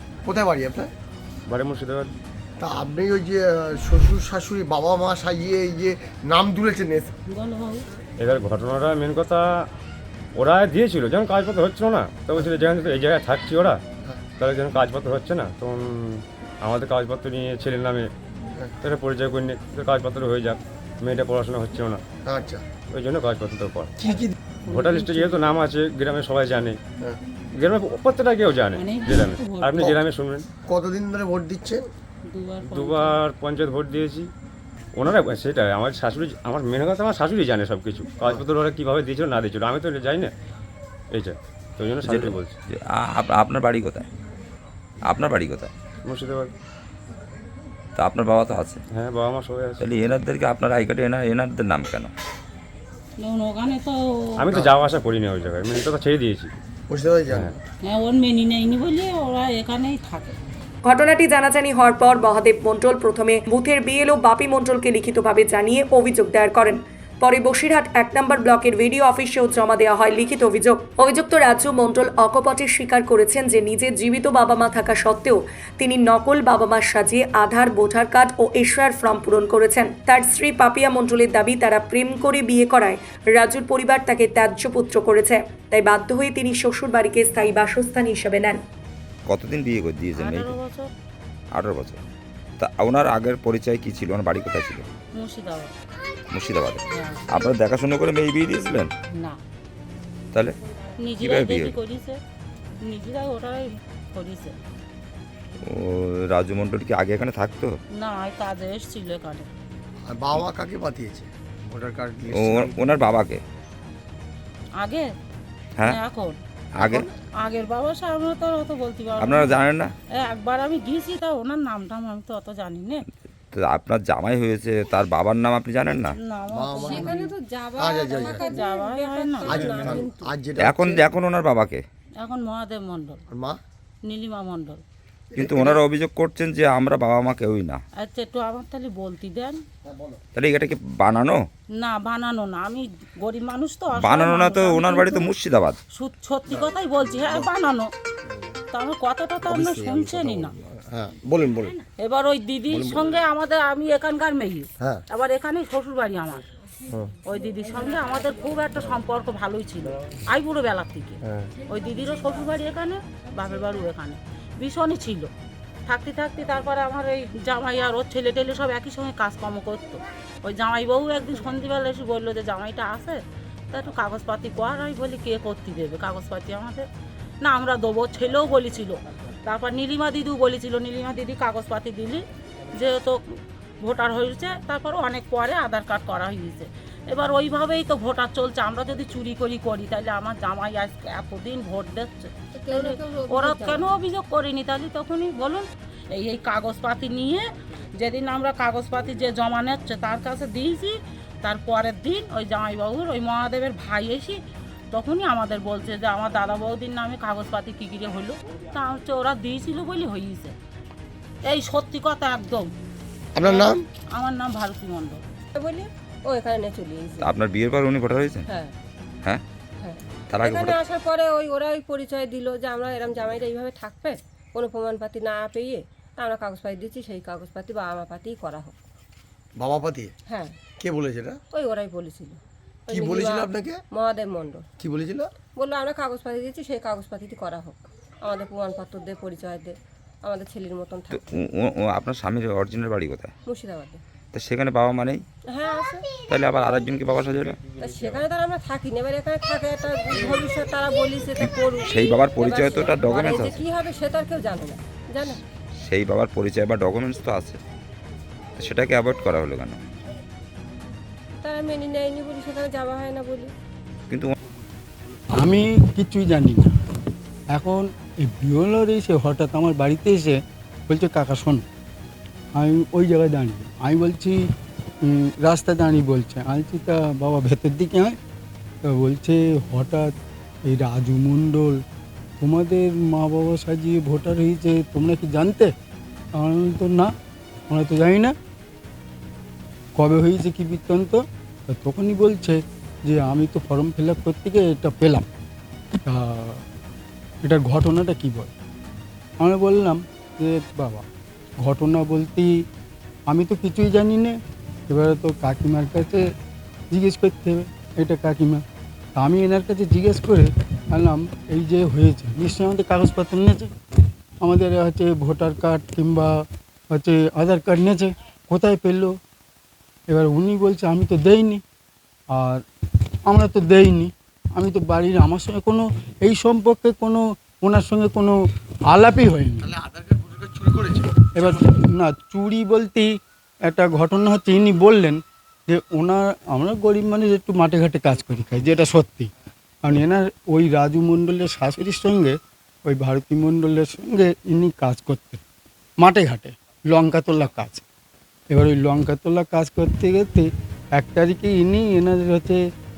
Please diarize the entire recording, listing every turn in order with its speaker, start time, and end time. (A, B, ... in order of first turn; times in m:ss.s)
0:00.3-0:00.9 A
0:01.5-0:02.1 B
0:02.6-0:07.1 A
0:07.3-0:07.8 C
0:08.2-0:09.7 B
0:10.4-0:13.8 B
0:14.4-0:18.1 B
0:18.8-0:22.0 B
0:22.2-0:22.6 A
0:22.9-0:24.1 B
0:24.0-0:24.3 A
0:24.7-0:26.8 B
0:24.7-0:25.3 C
0:27.5-0:30.5 B
0:28.7-0:29.9 C
0:30.6-0:31.8 A
0:32.3-0:33.2 C
0:32.7-0:34.3 B
0:35.0-0:40.3 B
0:41.1-0:42.6 B
0:42.0-0:44.1 D
0:45.0-0:45.7 D
0:46.0-0:46.5 B
0:48.0-0:48.8 D
0:48.9-0:49.9 B
0:49.8-0:52.1 D
0:53.2-0:54.3 C
0:54.4-0:56.5 B
0:56.9-0:57.6 A
0:57.8-1:00.4 C
1:00.8-1:28.6 E
1:29.2-1:30.5 D
1:30.2-1:30.9 C
1:31.5-1:32.0 D
1:32.6-1:34.9 D
1:35.1-1:35.7 C
1:36.3-1:38.9 D
1:36.9-1:37.2 C
1:39.1-1:39.4 C
1:41.0-1:42.2 C
1:41.2-1:41.7 D
1:42.8-1:44.6 C
1:45.6-1:47.8 D
1:47.9-1:49.5 C
1:50.1-1:53.1 A
1:52.3-1:53.4 D
1:54.8-1:55.1 C
1:55.8-1:56.4 C
1:56.7-1:57.1 D
1:57.4-2:03.0 C
1:59.2-1:59.9 D
2:03.5-2:06.2 D
2:06.1-2:07.3 C
2:06.5-2:07.1 A
2:06.8-2:10.3 F
2:07.8-2:08.5 A
2:08.5-2:09.6 C
2:09.5-2:11.1 A
2:10.6-2:11.8 D
2:12.2-2:13.2 C
2:13.3-2:13.6 A
2:14.0-2:14.8 C
2:15.3-2:15.8 A
2:15.4-2:17.8 D
2:18.0-2:19.6 C
2:19.9-2:20.2 A
2:20.3-2:21.5 D
2:21.8-2:25.3 C
2:23.9-2:25.8 D
2:25.9-2:27.9 C
2:26.5-2:27.5 A
2:28.7-2:30.6 C
2:29.4-2:31.8 A
2:32.0-2:36.4 C
2:32.7-2:33.2 A
2:37.2-2:45.3 C
2:41.2-2:41.5 A
2:45.9-2:56.9 C
2:57.4-3:24.4 C
3:12.5-3:14.0 F
3:24.9-3:30.6 C
3:31.4-3:32.7 C
3:33.3-3:33.8 A
3:33.4-3:35.2 C
3:35.6-3:37.3 F
3:37.2-3:38.5 D
3:38.5-3:38.7 F
3:39.8-3:48.8 F
3:40.3-3:40.8 D
3:49.6-3:50.1 A
3:50.3-3:50.6 F
3:50.8-3:51.4 A
3:51.5-3:54.6 F
3:52.9-3:53.8 A
3:54.8-3:55.3 A
3:55.5-4:01.3 F
4:01.1-4:03.3 D
4:03.4-4:04.0 F
4:04.3-4:05.2 D
4:05.5-4:06.1 F
4:06.2-4:07.6 D
4:07.8-4:15.4 F
4:11.4-4:13.6 D
4:15.8-4:17.6 D
4:18.6-4:19.8 D
4:21.4-4:23.5 F
4:25.4-4:26.8 G
4:27.5-4:31.6 G
4:32.6-4:34.4 G
4:35.0-4:38.2 G
4:38.8-4:40.1 G
4:40.6-4:41.8 G
4:42.4-4:45.7 G
4:46.4-4:47.1 G
4:47.7-4:48.4 G
4:50.0-4:55.3 G
4:56.1-4:56.6 G
4:57.4-4:58.5 G
4:59.4-5:01.0 G
5:01.6-5:02.7 G
5:03.3-5:04.4 G
5:04.9-5:06.3 G
5:06.9-5:08.6 G
5:09.2-5:13.7 G
5:14.4-5:19.1 G
5:20.1-5:21.6 G
5:22.3-5:22.6 G
5:23.2-5:28.4 G
5:28.9-5:29.8 G
5:31.3-5:39.3 G
5:39.8-5:45.4 G
5:46.0-5:47.8 G
5:48.5-5:52.6 G